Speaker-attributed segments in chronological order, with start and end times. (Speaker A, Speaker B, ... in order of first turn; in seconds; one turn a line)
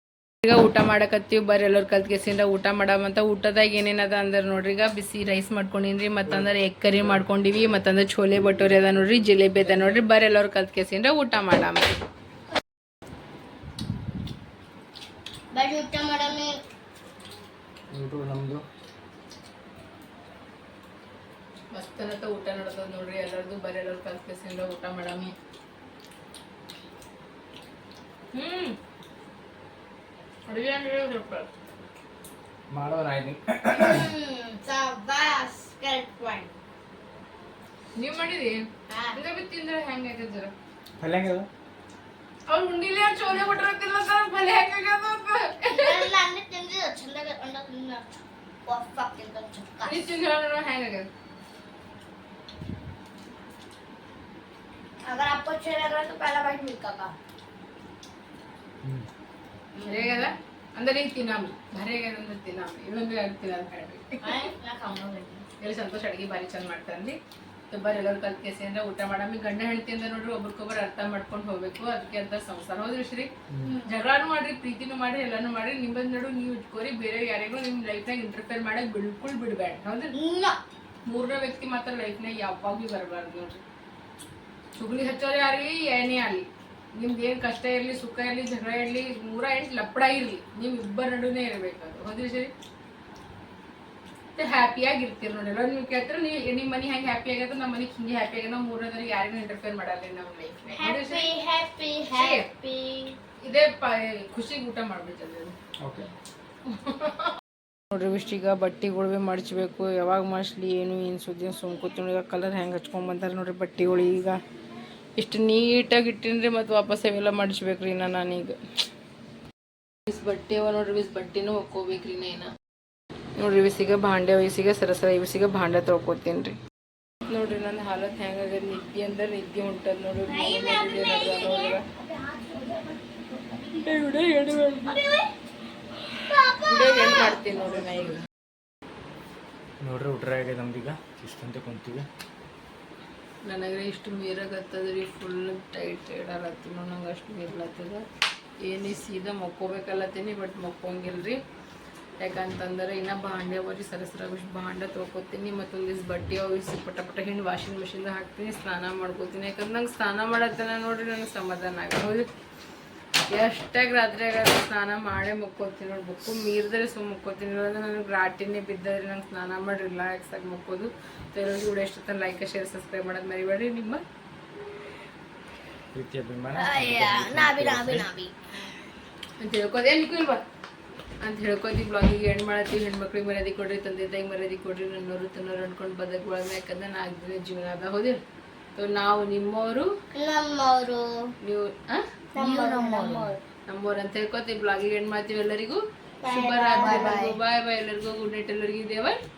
Speaker A: 0.4-12.0
Speaker B: 9.7-9.9
Speaker C: 15.5-16.5
Speaker B: 17.9-18.6
Speaker A: 21.7-25.3
Speaker A: 28.3-28.8
Speaker A: 30.5-31.5
Speaker B: 32.7-34.1
Speaker C: 33.8-36.5
Speaker A: 38.0-38.6
Speaker C: 38.9-39.2
Speaker A: 39.1-40.5
Speaker B: 41.0-41.5
Speaker A: 42.5-46.1
Speaker C: 45.7-48.0
Speaker C: 48.6-50.0
Speaker A: 49.8-51.1
Speaker C: 55.0-57.1
Speaker C: 59.8-60.3
Speaker A: 59.8-64.5
Speaker C: 64.2-65.4
Speaker A: 65.6-67.2
Speaker A: 67.7-73.3
Speaker C: 73.6-73.9
Speaker A: 73.8-80.1
Speaker C: 80.1-80.6
Speaker A: 81.1-83.6
Speaker A: 84.8-92.5
Speaker A: 94.4-101.3
Speaker C: 100.7-103.2
Speaker A: 102.1-102.5
Speaker A: 103.4-105.5
Speaker B: 105.8-106.1
Speaker A: 106.7-107.3
Speaker A: 107.9-114.4
Speaker A: 115.2-118.6
Speaker A: 120.1-122.5
Speaker A: 123.4-126.6
Speaker A: 127.3-131.8
Speaker C: 130.2-134.1
Speaker A: 133.8-135.0
Speaker C: 134.7-135.3
Speaker C: 136.2-137.8
Speaker A: 136.7-138.2
Speaker B: 139.8-142.1
Speaker A: 143.4-148.1
Speaker A: 148.6-151.4
Speaker A: 152.2-162.3
Speaker A: 163.3-174.0
Speaker B: 175.9-178.1
Speaker C: 176.5-178.3
Speaker A: 179.4-180.4
Speaker A: 181.2-188.2
Speaker A: 188.7-189.9
Speaker C: 190.1-191.1
Speaker A: 191.4-199.2
Speaker C: 192.3-193.4
Speaker C: 196.2-197.3